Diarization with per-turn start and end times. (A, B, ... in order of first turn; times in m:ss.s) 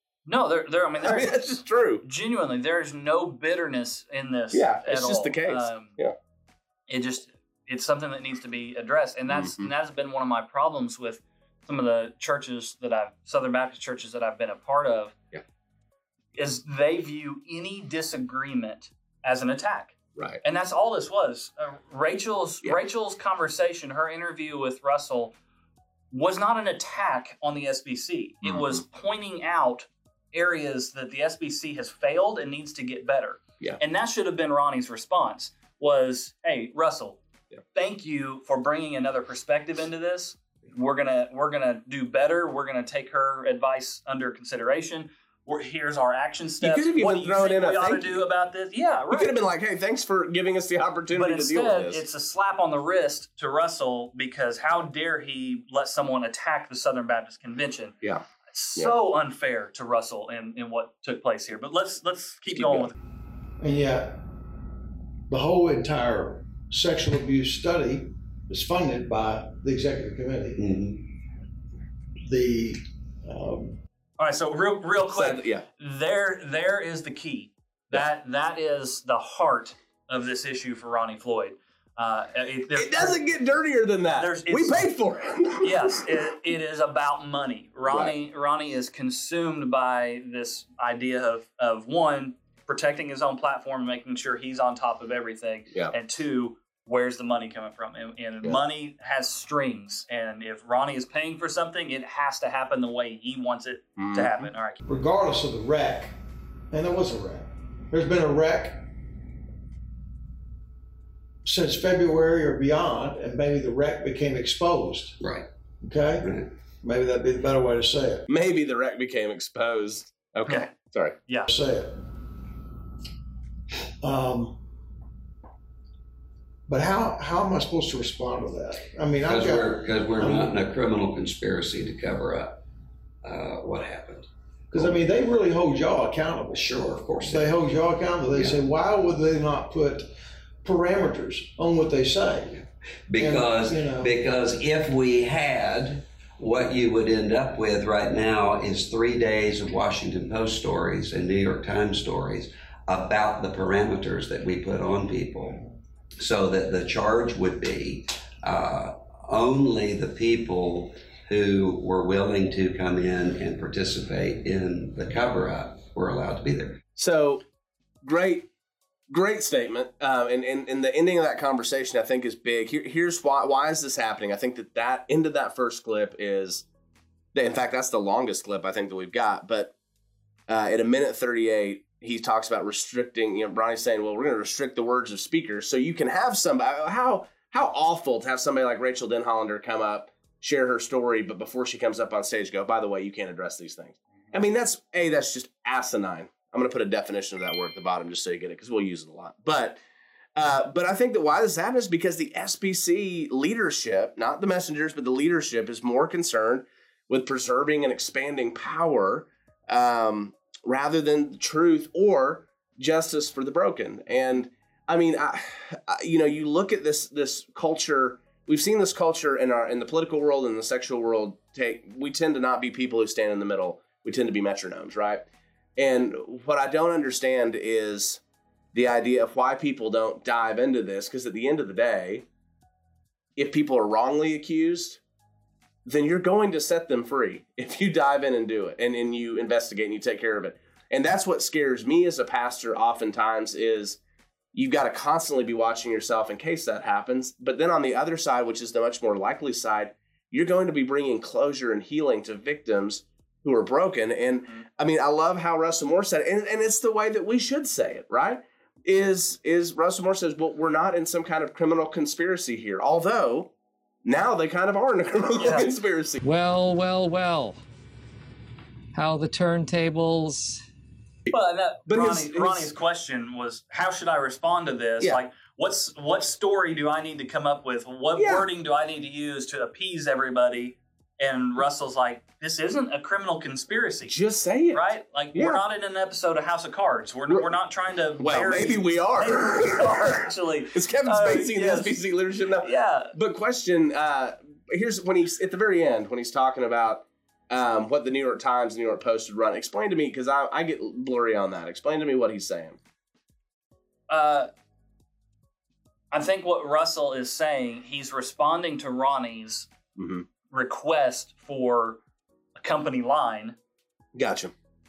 0:00.2-0:06.0 A
0:01.0-0:02.0 B
0:04.5-0:06.1 B
0:06.9-0:15.2 A
0:09.3-0:09.7 B
0:16.3-0:25.3 A
0:20.2-0:20.4 B
0:26.1-0:37.2 A
0:28.4-0:28.8 B
0:37.7-0:49.3 A
0:46.6-0:48.2 B
0:49.1-0:52.0 B
0:51.1-0:57.9 A
0:58.5-1:02.9 A
1:02.6-1:02.9 B
1:03.6-1:04.3 C
1:05.3-1:10.7 C
1:10.6-1:11.0 D
1:12.2-1:13.8 C
1:14.2-1:23.2 A
1:15.1-1:15.6 B
1:22.7-1:26.1 B
1:24.2-1:24.9 A
1:25.6-1:44.8 A
1:27.9-1:28.1 B
1:44.0-1:44.3 B
1:44.8-1:46.2 C
1:46.7-1:48.9 C
1:51.4-1:55.2 C
1:55.2-1:55.5 D
1:55.8-1:58.2 C
1:56.2-1:56.5 D
1:58.3-2:01.2 B
2:00.4-2:00.7 A
2:01.5-2:02.1 C
2:04.0-2:04.6 C
2:06.7-2:10.5 C
2:09.2-2:12.6 D
2:13.2-2:15.0 D
2:14.7-2:20.1 C
2:16.5-2:17.6 D
2:20.6-2:22.6 C
2:23.1-2:46.8 D
2:23.1-2:24.1 C
2:47.0-2:47.4 B
2:48.0-2:48.5 B
2:49.1-2:56.6 B
2:57.3-2:59.7 B
3:00.5-3:19.8 B
3:20.4-3:45.2 B
3:45.8-3:48.2 B
3:48.7-3:52.2 B
3:53.4-3:55.0 B
3:55.8-4:04.0 B
4:04.5-4:23.5 B
4:24.0-4:26.2 B
4:25.4-4:25.7 A
4:26.2-4:27.6 E
4:28.9-4:30.6 E
4:31.3-4:44.1 A
4:31.9-4:32.7 B
4:38.2-4:38.4 B
4:44.1-4:45.6 B
4:44.7-4:51.9 A
4:48.2-5:02.8 B
4:52.6-4:53.1 A
5:04.1-5:04.5 A
5:06.1-5:09.7 A
5:10.0-5:10.2 B
5:10.5-5:12.0 A
5:12.6-5:13.6 A
5:14.1-5:14.5 B